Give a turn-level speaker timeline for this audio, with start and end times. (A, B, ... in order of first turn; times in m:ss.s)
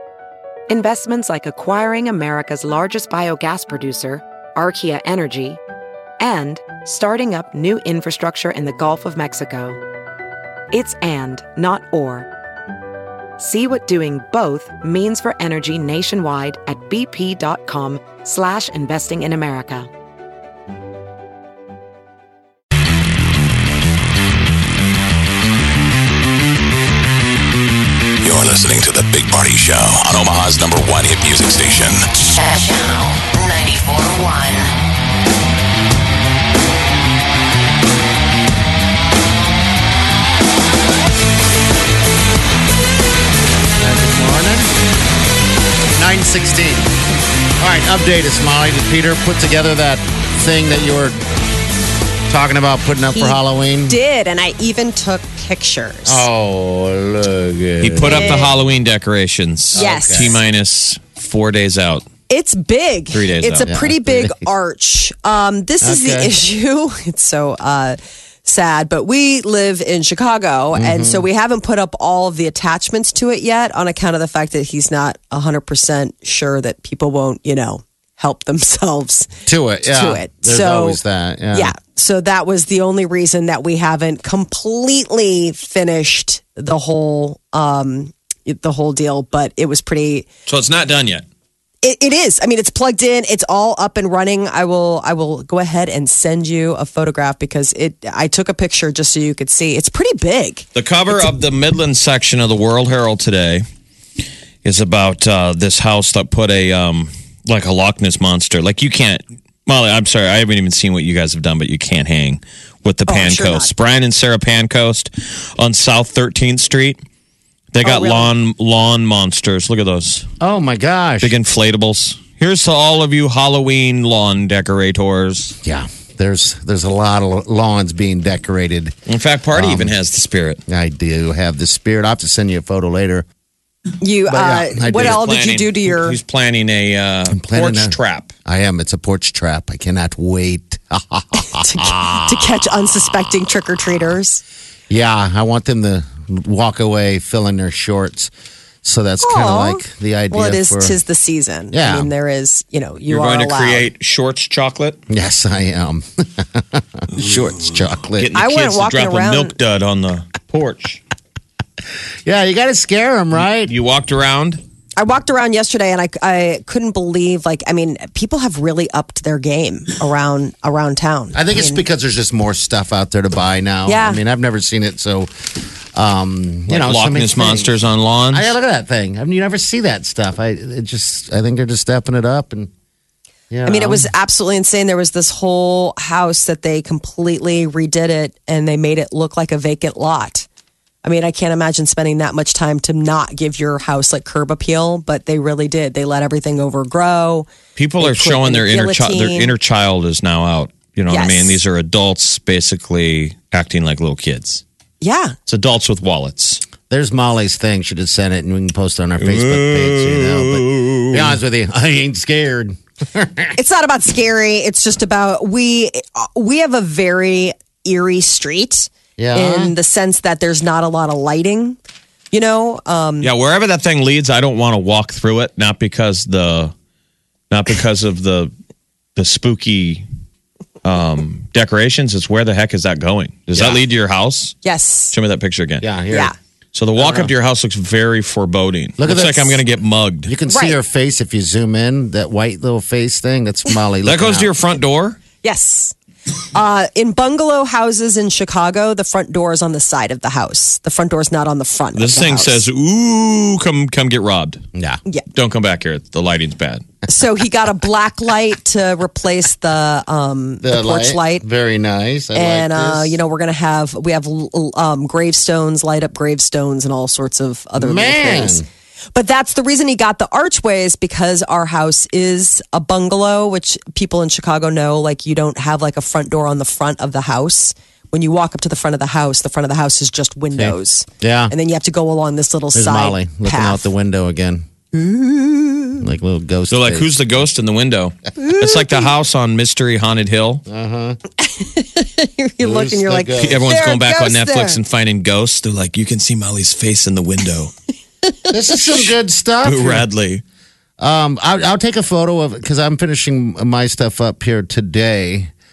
0:00.7-0:05.6 A
0:06.2-0:09.8 A
0:10.7-0:12.3 A
0:13.4-0:19.9 A
0:28.2-0:32.0 B
0:32.4-0:34.7 C
0:43.8-0:44.7 D
0:46.0-0:46.9 D
0:47.6-0:51.2 D
0:52.3-0:54.0 D
0:53.1-0:56.3 E
0:56.0-0:58.6 D
0:57.8-1:02.1 F
0:58.0-0:58.5 E
0:59.7-1:00.4 D
0:59.8-1:00.4 E
1:02.3-1:19.3 E
1:03.1-1:03.7 F
1:03.7-1:04.5 D
1:05.8-1:06.3 D
1:10.7-1:11.3 D
1:19.5-1:21.7 D
1:19.8-1:21.0 E
1:21.5-1:30.3 E
1:30.5-1:31.2 F
1:31.8-1:40.7 E
1:40.8-1:43.6 F
1:44.6-1:57.0 F
1:53.1-1:53.7 E
1:57.7-2:00.3 F
1:57.8-1:58.3 E
2:00.4-2:01.3 D
2:01.2-2:05.6 F
2:05.6-2:09.0 D
2:09.1-2:10.6 F
2:09.5-2:10.0 D
2:10.7-2:13.3 D
2:14.0-2:16.2 E
2:14.3-2:15.2 D
2:15.0-2:18.3 F
2:17.3-2:22.4 D
2:21.4-2:24.4 E
2:24.9-2:28.3 D
2:28.8-2:31.0 D
2:29.2-2:33.9 E
2:31.7-2:32.1 D
2:33.1-2:35.0 F
2:35.1-2:38.3 D
2:38.1-2:41.0 F
2:38.3-2:39.6 E
2:42.3-2:43.7 D
2:43.4-2:44.6 F
2:45.0-2:51.8 E
2:51.3-2:55.3 D
2:53.9-2:54.2 E
2:56.0-2:57.8 D
2:56.7-2:58.5 F
2:58.3-3:02.7 D
3:03.5-3:04.1 D
3:03.7-3:10.5 E
3:11.0-3:17.5 E
3:17.8-3:24.6 F
3:18.0-3:19.6 E
3:21.1-3:21.6 E
3:25.0-3:25.4 E
3:25.5-3:26.6 F
3:26.9-3:33.5 D
3:29.2-3:31.4 F
3:33.6-3:41.8 E
3:39.2-3:39.8 D
3:42.3-3:43.3 E
3:43.2-3:46.7 F
3:47.5-3:48.5 F
3:49.2-3:50.0 F
3:50.8-3:54.6 F
3:53.5-3:53.8 D
3:54.6-3:55.2 E
3:55.1-3:55.9 F
3:55.8-3:56.3 D
3:56.7-4:00.3 F
3:57.0-3:57.3 D
3:59.0-3:59.6 D
4:00.3-4:04.5 D
4:00.5-4:00.8 E
4:04.0-4:05.2 F
4:05.4-4:06.0 E
4:06.5-4:12.6 E
4:11.9-4:14.6 F
4:14.7-4:15.0 D
4:15.3-4:16.8 F
4:17.1-4:21.4 E
4:20.6-4:23.2 D
4:22.3-4:28.6 E
4:27.8-4:28.7 D
4:29.1-4:43.9 E
4:40.5-4:41.5 D
4:42.7-4:44.6 D
4:44.9-4:46.1 E
4:46.0-4:47.1 D
4:46.7-4:50.6 F
4:48.4-4:49.1 E
4:50.7-4:51.2 D
4:51.4-4:54.8 E
4:52.6-4:53.6 D
4:53.4-4:57.7 F
4:58.5-5:00.1 D
4:59.6-5:00.4 F
5:01.0-5:05.5 D